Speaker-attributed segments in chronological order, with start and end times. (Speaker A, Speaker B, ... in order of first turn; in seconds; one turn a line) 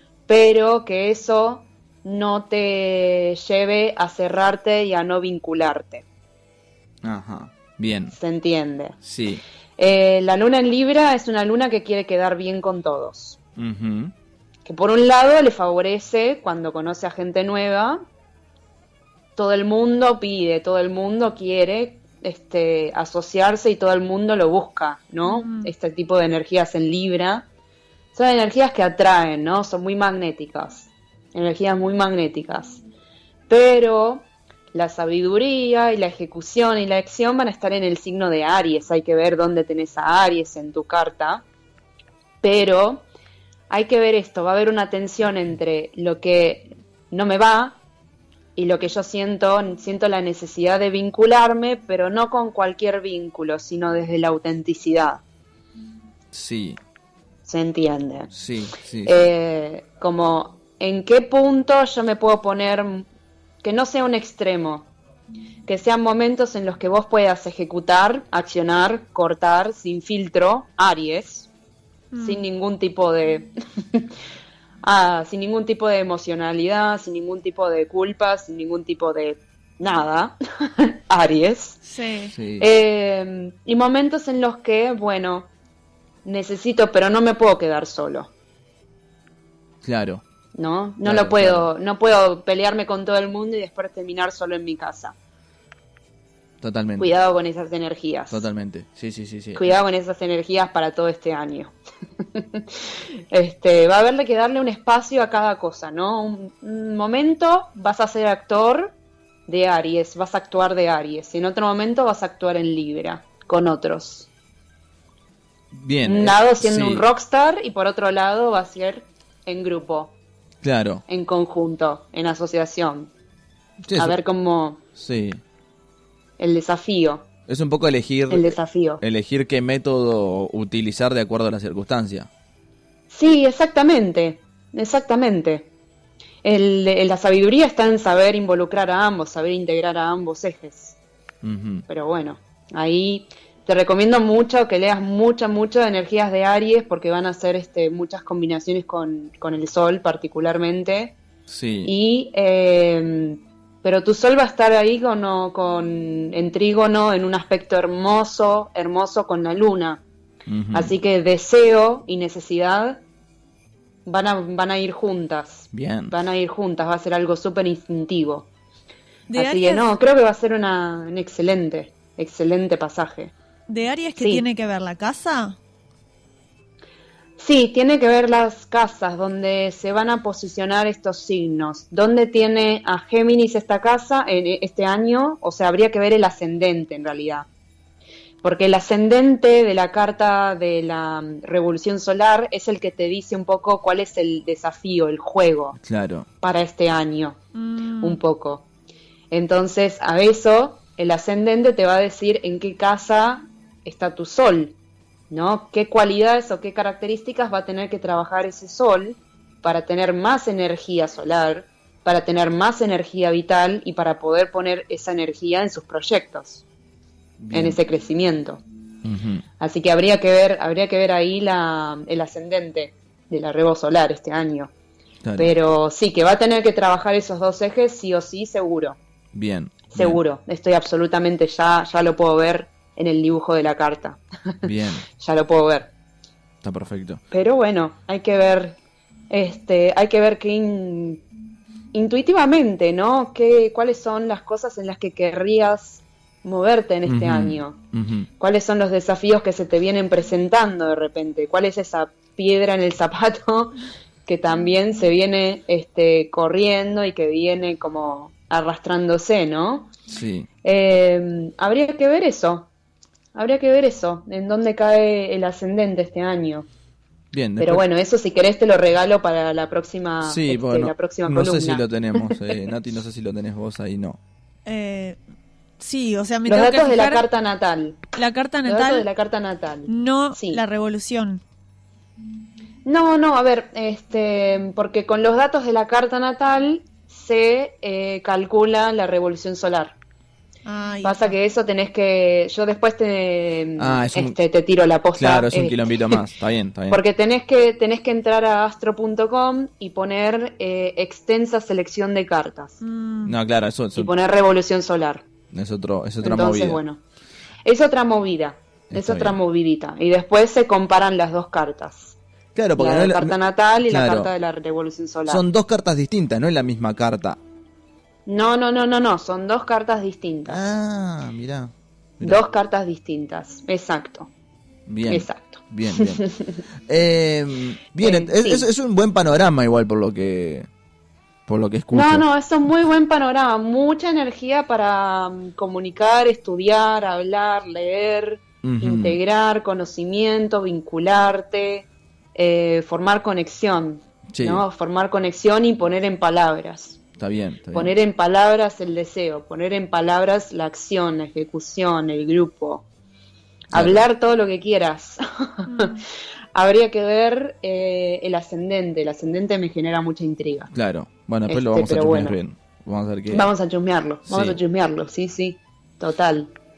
Speaker A: 0.3-6.0
Speaker B: 7.0-8.1
Speaker A: 8.1-9.0
Speaker B: 9.0-9.4
Speaker A: 9.8-13.4
Speaker B: 13.6-14.1
Speaker A: 14.7-18.0
Speaker A: 19.4-27.5
Speaker C: 25.2-25.7
Speaker A: 28.1-32.8
Speaker A: 33.5-41.4
Speaker A: 42.4-43.1
Speaker A: 43.7-47.8
Speaker A: 48.6-55.2
Speaker B: 56.3-56.8
Speaker A: 57.5-58.3
Speaker B: 58.3-59.3
Speaker A: 59.1-63.1
Speaker A: 63.6-64.9
Speaker A: 65.7-71.5
Speaker C: 72.1-72.4
Speaker A: 72.2-74.0
Speaker A: 74.8-81.8
Speaker C: 81.8-82.3
Speaker B: 82.3-82.7
Speaker A: 82.6-85.5
Speaker A: 86.2-88.3
Speaker B: 89.8-90.2
Speaker A: 90.5-95.2
Speaker B: 91.0-91.7
Speaker B: 96.6-97.1
Speaker A: 97.0-98.5
Speaker B: 98.3-99.7
Speaker A: 99.6-101.7
Speaker A: 102.3-102.7
Speaker A: 103.3-108.9
Speaker A: 109.5-114.3
Speaker B: 115.7-117.0
Speaker A: 116.0-120.1
Speaker B: 120.6-121.0
Speaker A: 121.1-123.1
Speaker B: 123.9-124.2
Speaker A: 124.0-124.8
Speaker B: 125.0-125.4
Speaker A: 126.4-127.3
Speaker B: 127.5-132.3
Speaker A: 128.3-129.0
Speaker A: 133.1-135.7
Speaker A: 136.4-141.0
Speaker B: 141.4-141.8
Speaker A: 141.9-151.2
Speaker B: 151.5-151.9
Speaker A: 151.8-160.0
Speaker B: 160.5-160.9
Speaker A: 160.7-163.0
Speaker A: 164.1-168.5
Speaker B: 165.7-166.2
Speaker C: 169.3-169.9
Speaker A: 169.4-173.3
Speaker C: 173.7-175.6
Speaker A: 174.2-174.4
Speaker A: 177.4-187.5
Speaker A: 188.4-195.8
Speaker B: 195.8-196.3
Speaker A: 196.4-197.4
Speaker C: 197.6-198.2
Speaker A: 198.0-198.7
Speaker A: 199.3-204.8
Speaker A: 205.3-216.6
Speaker B: 217.4-217.8
Speaker A: 217.5-218.6
Speaker B: 219.0-219.4
Speaker A: 219.6-224.7
Speaker B: 225.2-225.6
Speaker A: 225.4-229.0
Speaker B: 229.3-230.2
Speaker A: 229.9-234.2
Speaker B: 234.6-235.1
Speaker A: 235.2-235.9
Speaker B: 236.6-237.2
Speaker A: 237.3-238.8
Speaker A: 239.3-241.2
Speaker A: 241.9-247.8
Speaker B: 247.1-248.3
Speaker A: 248.4-259.9
Speaker B: 260.1-260.5
Speaker A: 260.6-262.7
Speaker A: 263.4-266.7
Speaker B: 267.3-267.8
Speaker A: 267.6-272.6
Speaker B: 270.2-274.2
Speaker C: 274.7-275.2
Speaker C: 275.8-277.2
Speaker A: 276.5-278.0
Speaker C: 278.1-279.1
Speaker A: 278.6-280.6
Speaker C: 279.9-281.4
Speaker A: 282.9-289.9
Speaker C: 290.7-291.3
Speaker A: 291.0-296.2
Speaker B: 293.8-294.4
Speaker B: 295.2-297.0
Speaker A: 296.9-302.8
Speaker C: 302.8-303.4
Speaker B: 303.2-304.1
Speaker A: 304.0-305.2
Speaker B: 305.5-306.8
Speaker A: 306.2-307.0
Speaker A: 307.7-312.2
Speaker B: 308.9-309.4
Speaker B: 312.6-314.3
Speaker A: 312.8-315.4
Speaker B: 315.3-317.4
Speaker A: 318.3-320.6
Speaker B: 320.5-322.4
Speaker A: 322.2-324.3
Speaker B: 324.9-326.2
Speaker A: 325.1-326.6
Speaker B: 326.9-330.7
Speaker A: 328.0-328.7
Speaker B: 331.5-332.2
Speaker A: 331.9-347.0
Speaker B: 338.6-339.2
Speaker B: 344.3-344.6
Speaker B: 347.2-347.9
Speaker A: 347.7-352.9
Speaker B: 353.7-354.0
Speaker A: 353.7-356.0
Speaker C: 355.7-356.0
Speaker A: 356.5-360.7
Speaker B: 360.7-363.5
Speaker A: 361.5-362.4
Speaker A: 363.3-366.5
Speaker B: 364.3-364.6